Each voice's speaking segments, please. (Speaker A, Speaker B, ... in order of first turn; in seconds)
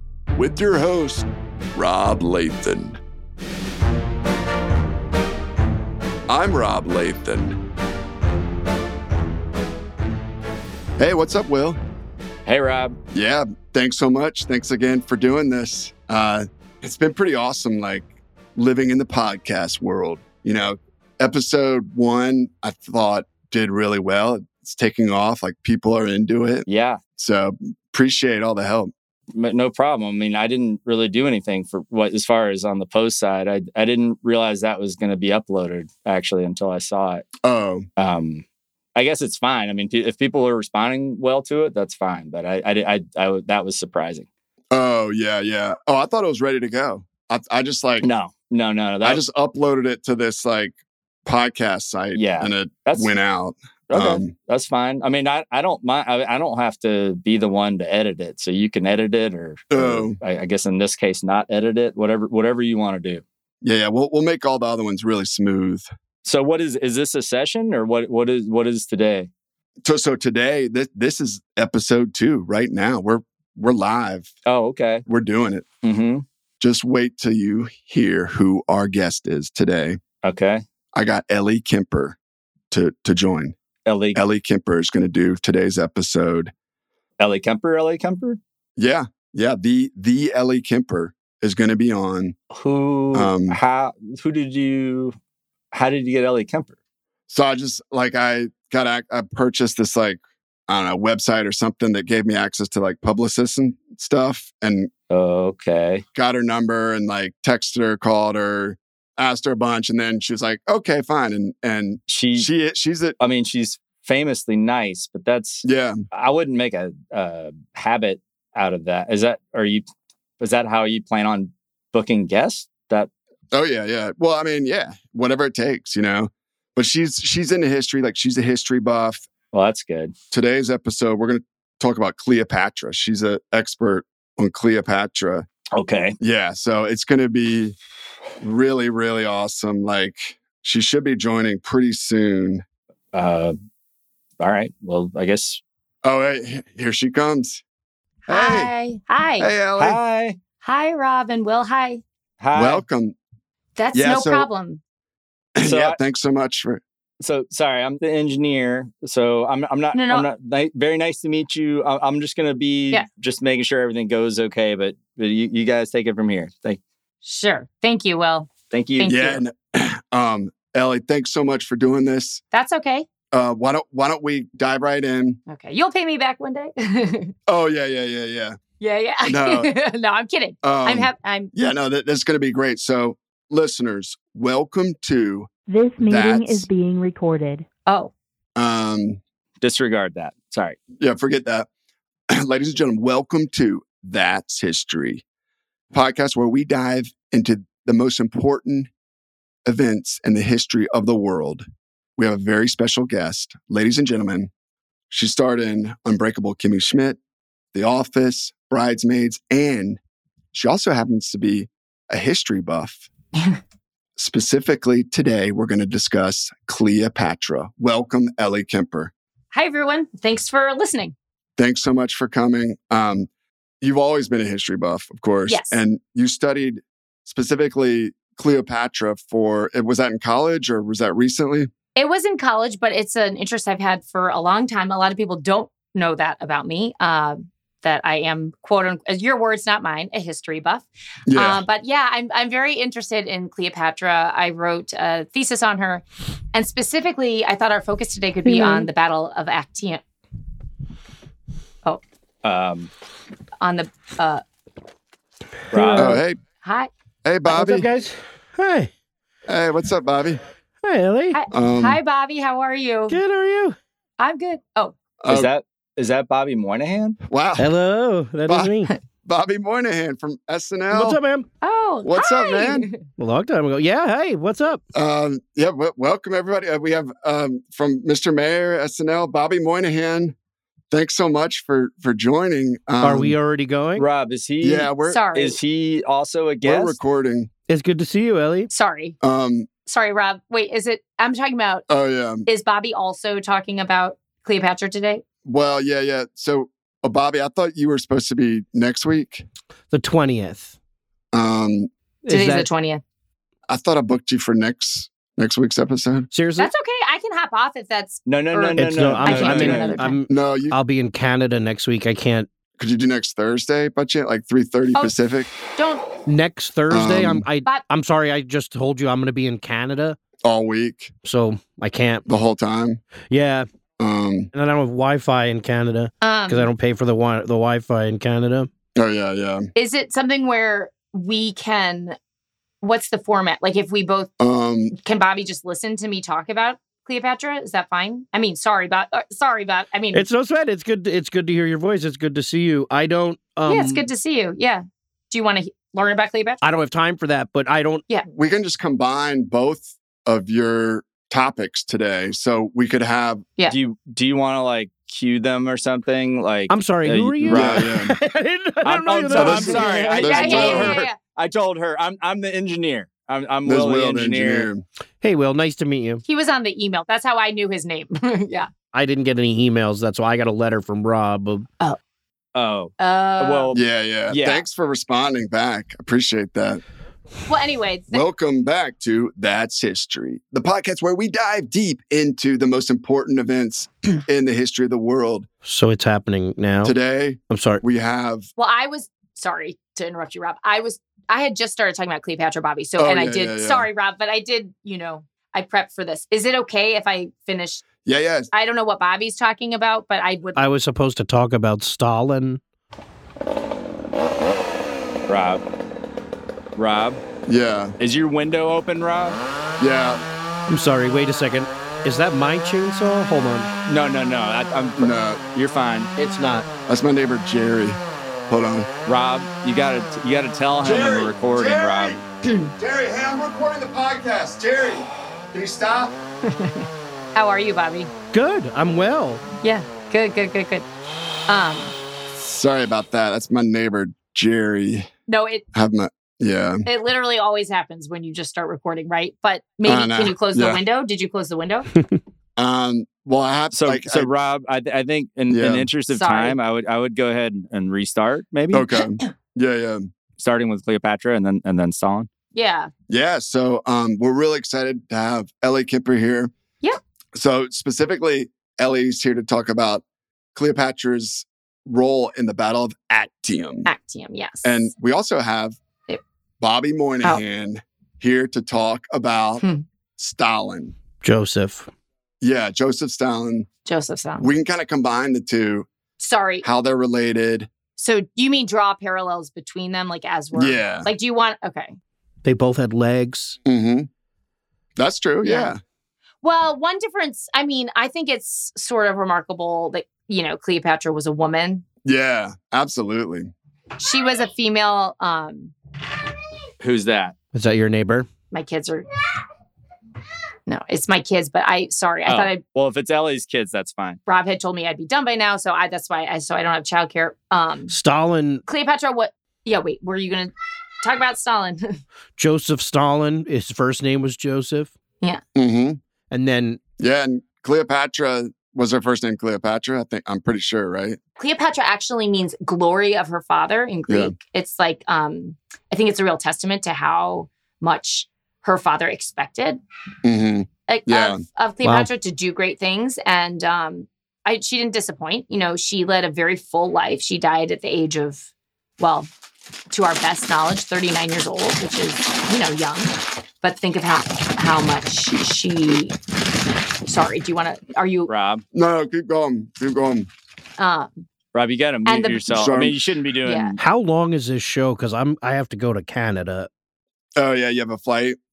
Speaker A: 0.3-3.0, 6.3-7.6, 11.0-11.8, 13.1-26.7, 27.2-28.9, 37.4-37.9, 44.7-48.1, 49.0-54.3, 59.7-60.2, 63.6-65.9, 69.8-74.3, 75.1-75.7, 76.6-80.0, 80.9-82.2, 82.7-83.5, 84.2-86.5, 88.8-92.3, 93.1-93.6, 97.3-104.9, 106.1-113.2, 115.6-116.0, 123.5-129.3, 130.3-135.5, 136.2-137.8, 138.4-142.6, 146.0-147.6, 148.3-148.7, 149.4-150.0, 152.5-153.2, 153.9-154.5, 155.6-156.8, 169.1-172.4, 173.3-175.4, 177.5-178.6, 179.2-179.7, 180.6-186.7, 188.6-189.2, 191.0-191.7, 192.3-195.2, 195.9-198.9, 199.7-201.7, 202.2-204.5, 205.1-207.2, 207.7-210.0, 210.5-213.1, 214.2-219.1, 221.6-223.3, 223.8-231.7, 241.3-241.6, 256.0-256.4, 257.2-257.9, 259.5-260.4, 261.5-262.0, 265.2-265.5, 267.2-267.7, 268.5-271.2, 272.0-272.9, 274.9-280.3, 280.9-283.4, 284.6-285.2, 286.6-287.5, 289.2-289.7, 291.9-292.5, 295.4-299.5, 301.3-301.9, 303.7-306.3, 310.3-310.8, 312.8-315.5, 316.9-317.5, 320.4-321.1, 322.3-323.0, 324.0-324.5, 328.9-329.7, 334.4-334.9, 348.3-353.5, 357.5-358.1, 359.3-361.0, 363.6-364.9, 373.7-376.8, 378.1-385.5, 386.8-388.5, 393.0-393.9, 398.1-398.5, 407.5-408.0, 409.8-410.2, 415.0-415.4, 416.9-418.9, 420.8-426.1, 432.4-435.1, 435.7-436.9, 439.9-440.8, 442.6-444.4, 445.5-445.9, 448.7-450.1, 453.1-456.5, 457.4-460.0, 460.6-463.9, 464.6-465.8, 466.6-469.6, 470.2-470.9, 472.4-473.7, 474.4-475.9, 476.6-477.7, 480.5-481.1, 483.6-484.1, 485.0-485.8, 492.1-493.5, 515.5-516.0, 517.0-521.2, 524.1-524.4, 530.2-531.4, 548.7-550.3, 552.5-553.0, 557.4-558.4
Speaker B: 12.5-12.9, 26.7-27.0, 29.3-37.2, 38.0-38.4, 39.0-44.3, 48.0-49.2, 52.1-53.1, 53.9-63.2, 66.2-69.3, 74.5-75.0, 75.8-76.2, 80.2-80.6, 83.9-84.2, 87.2-88.4, 92.5-95.2, 95.7-96.8, 105.1-106.0, 112.1-112.5, 113.2-119.8, 120.4-123.1, 129.5-130.1, 135.8-136.2, 143.1-143.5, 144.4-145.6, 149.8-150.4, 152.4-152.8, 155.6-156.0, 157.2-166.8, 168.7-169.2, 189.6-190.8, 252.4-252.9, 255.7-256.1, 265.3-267.2, 284.0-287.0, 308.3-310.1, 353.7-357.9, 358.8-364.7, 372.6-374.6, 405.3-405.6, 406.8-407.2, 408.0-409.4, 413.9-416.1, 419.1-422.2, 443.7-448.9, 450.4-452.3, 496.8-497.4, 502.3-504.2, 548.3-548.6, 551.5-553.8
Speaker C: 148.3-149.5, 150.6-152.0, 153.8-154.8, 159.9-160.3, 167.2-169.4, 172.5-173.1, 175.5-177.3, 178.8-181.5, 187.9-188.1, 219.5-221.2, 225.5-225.8, 232.0-250.0, 253.6-254.4, 256.6-256.9, 261.3-263.2, 264.2-264.9, 271.6-273.0, 285.1-285.6, 288.7-289.2, 289.9-291.9, 292.5-295.2, 302.3-303.0, 306.6-310.2, 315.8-316.1, 326.2-326.7, 329.8-332.2, 332.8-334.3, 334.9-340.3, 343.7-346.6, 359.8-361.1, 366.2-368.7, 373.0-373.7, 377.5-378.2, 388.6-397.9, 398.5-400.7, 426.5-428.1, 429.6-430.9, 431.5-431.9, 435.3-435.6, 436.9-441.9, 446.1-446.6, 452.5-452.9, 463.9-464.9, 469.6-469.9, 473.9-474.5, 476.2-476.7, 478.0-481.9, 485.4-485.8, 486.4-491.8, 494.0-495.7, 498.5-499.1, 500.7-502.6, 504.3-507.9, 508.7-512.0, 521.4-529.8, 530.9-539.3, 539.9-546.2, 547.1-548.3, 550.8-551.2, 552.1-552.7, 553.4-553.8
Speaker D: 185.7-187.7
Speaker E: 255.7-256.2, 257.5-258.9, 260.8-261.4, 263.1-263.8, 267.6-268.9, 270.9-271.5, 273.2-274.8, 283.0-284.1, 287.7-288.7, 299.9-300.8, 302.2-302.7, 306.3-306.7, 308.8-312.5, 316.3-320.2, 321.2-322.3, 323.3-323.7, 324.5-328.7, 340.1-344.1, 346.6-348.0, 356.7-360.9, 365.2-366.2, 368.9-371.7, 385.6-386.9, 387.5-387.8, 400.6-402.6, 410.7-413.7, 416.2-416.7, 428.3-429.4, 471.2-471.9, 482.4-483.6, 497.5-498.3, 507.9-508.6, 512.4-514.9, 516.3-516.8, 553.8-556.7